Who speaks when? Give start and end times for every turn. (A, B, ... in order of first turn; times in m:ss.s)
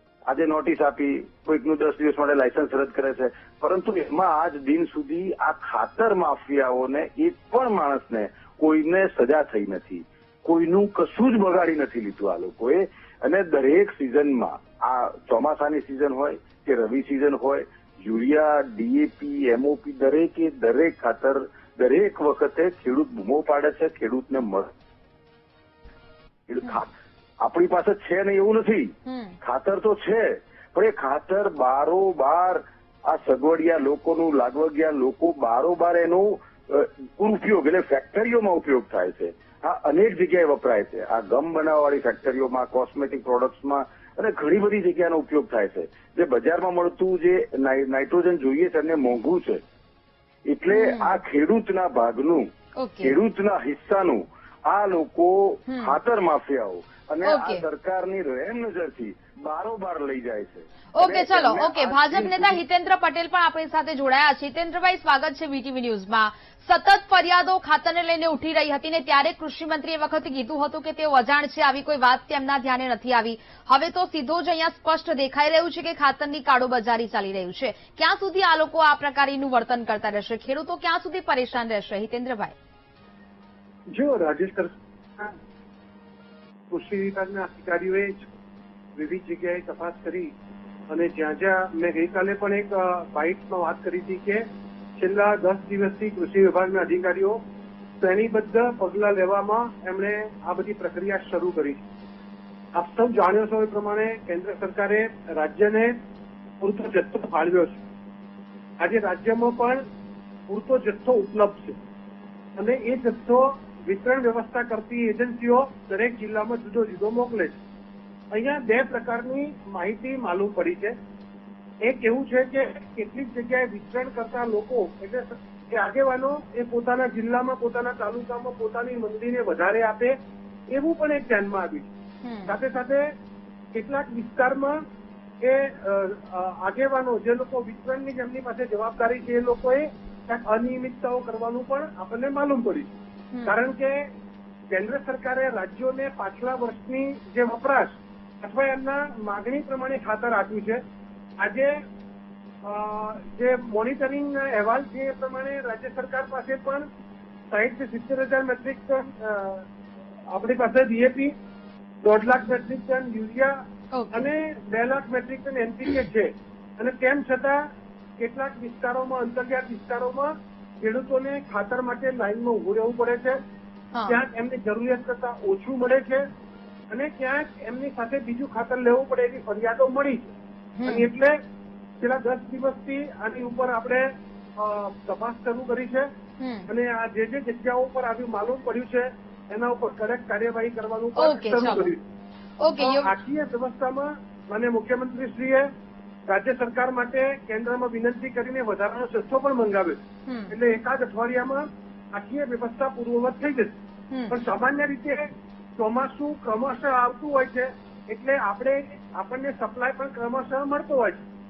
0:00.3-0:24.7 A
0:26.5-0:26.9 A
0:27.4-0:49.6 A
0:29.0-0:29.4 B
0:50.4-0:52.5 A
0:50.7-0:51.2 B
0:52.8-0:53.1 B
0:53.0-1:02.6 A
0:55.7-0:55.9 B
0:57.2-0:57.6 B
1:00.9-1:22.5 B
1:23.9-1:25.3 C
1:26.7-1:28.3 C
1:28.9-1:30.3 C
1:30.9-1:37.4 C
1:38.0-1:41.8 C
1:42.7-1:46.0 C
1:46.6-1:47.8 C
1:48.8-1:49.8 C
1:50.5-1:51.8 C
1:52.5-1:57.6 C
1:58.3-2:01.0 C
2:01.8-2:10.2 C
2:10.7-2:11.9 C
2:12.2-2:12.5 B
2:12.5-2:13.1 C
2:13.7-2:14.8 C
2:15.4-2:22.9 C
2:23.4-2:24.1 C
2:24.7-2:30.8 C
2:31.4-2:31.8 C
2:32.6-2:36.9 C
2:37.5-2:39.6 C
2:40.3-2:41.3 C
2:42.0-2:43.6 C
2:43.9-2:44.3 B
2:44.1-2:47.6 C
2:48.2-2:53.4 C
2:54.0-2:56.2 C
2:56.9-3:01.4 C
3:00.8-3:01.1 B
3:02.0-3:06.1 C
3:06.4-3:06.7 B
3:06.7-3:12.0 C
3:11.2-3:11.9 B
3:12.6-3:13.1 B
3:12.7-3:15.7 C
3:16.2-3:23.8 C
3:20.2-3:20.5 B
3:24.3-3:31.2 C